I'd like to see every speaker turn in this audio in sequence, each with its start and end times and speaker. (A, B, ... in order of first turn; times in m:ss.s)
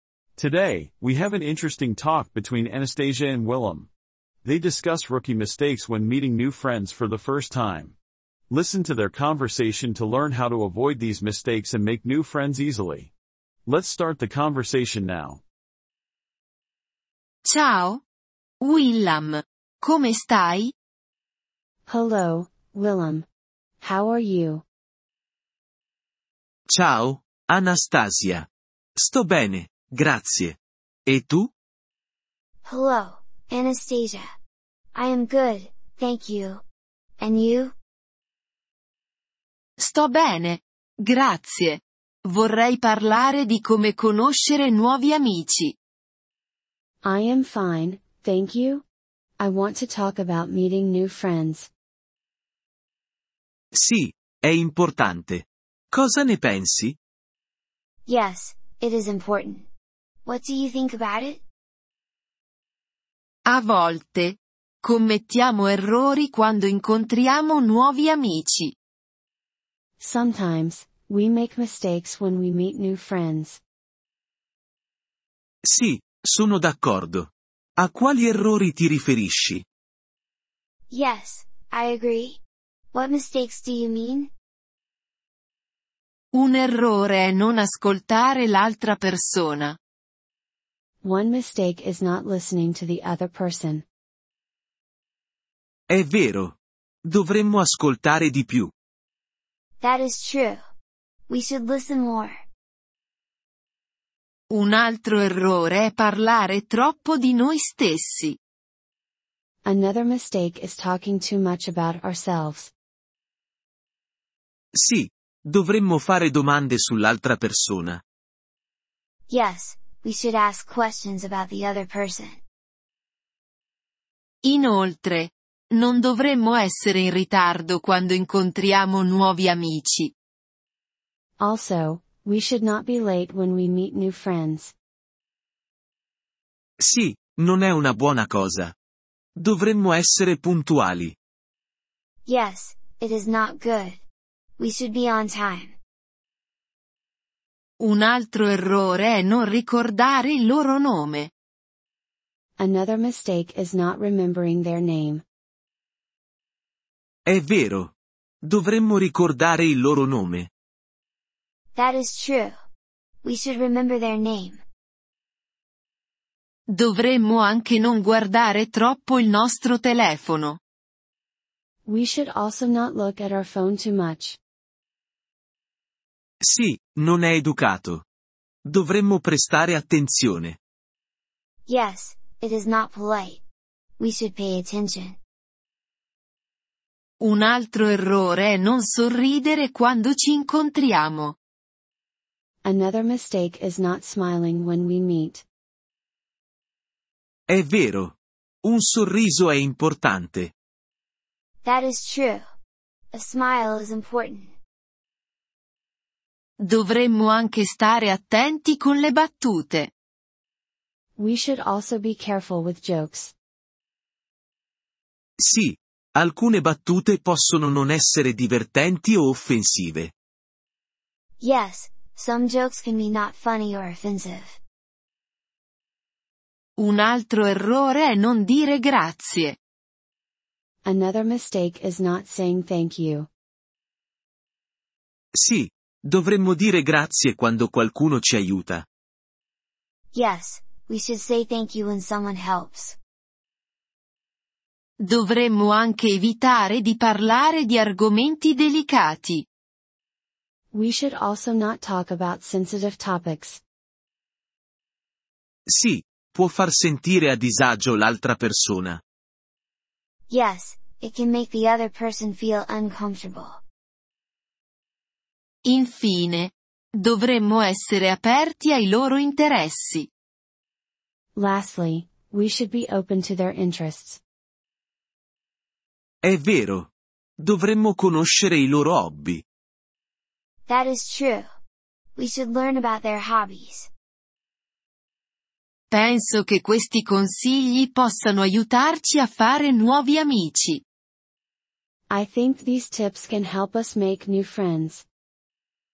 0:00.4-0:03.9 A
0:04.4-0:08.0 A
0:08.5-0:13.1 A
0:13.7-0:15.4 A
0:17.4-0:18.0 B
0:18.6-0:20.7 B
0:21.9-0:23.3 C
0:23.8-0:24.6 C
0:26.7-0:31.5 D
0:32.6-0:34.2 E
0:34.9-0:36.6 E
0:37.2-0:37.7 E
0:39.8-0:45.7 B
0:47.0-0:48.8 C
0:49.4-0:51.7 C
0:53.7-0:57.0 D
0:58.1-0:59.7 E
1:00.2-1:01.4 E
1:03.4-1:08.7 B
1:10.0-1:13.6 C
1:15.6-1:19.6 D
1:20.9-1:22.4 E
1:22.9-1:24.3 E
1:26.3-1:29.8 B
1:31.0-1:33.8 C
1:35.9-1:38.7 D
1:39.8-1:40.6 E
1:41.3-1:42.4 E
1:44.5-1:48.4 B
1:49.6-1:52.7 C
1:54.7-1:58.0 D
1:59.3-2:02.4 E
2:04.4-2:10.1 B
2:11.4-2:14.7 C
2:16.8-2:18.7 D
2:19.4-2:21.2 D
2:22.2-2:24.0 E
2:24.6-2:25.8 E
2:27.8-2:31.3 B
2:32.6-2:35.2 C
2:37.2-2:40.5 D
2:41.7-2:42.6 E
2:43.2-2:44.6 E
2:46.7-2:50.6 B
2:51.8-2:54.4 C
2:56.4-2:58.0 D
2:58.6-3:00.6 D
3:01.7-3:03.4 E
3:04.0-3:05.2 E
3:07.2-3:11.4 B
3:12.6-3:15.4 C
3:17.5-3:20.5 D
3:21.6-3:22.4 E
3:23.1-3:24.5 E
3:26.6-3:29.9 B
3:31.2-3:33.3 C
3:35.4-3:40.1 D
3:41.4-3:44.6 E
3:46.8-3:49.6 B
3:50.8-3:53.3 C
3:55.3-3:58.9 D
4:00.1-4:03.0 E
4:05.0-4:09.4 B
4:10.7-4:13.6 C
4:15.7-4:19.0 D
4:20.3-4:23.6 E
4:25.6-4:30.1 B
4:31.4-4:34.2 C
4:36.2-4:39.4 D
4:40.7-4:41.5 E
4:42.2-4:43.9 E
4:45.9-4:50.8 B
4:52.1-4:55.0 C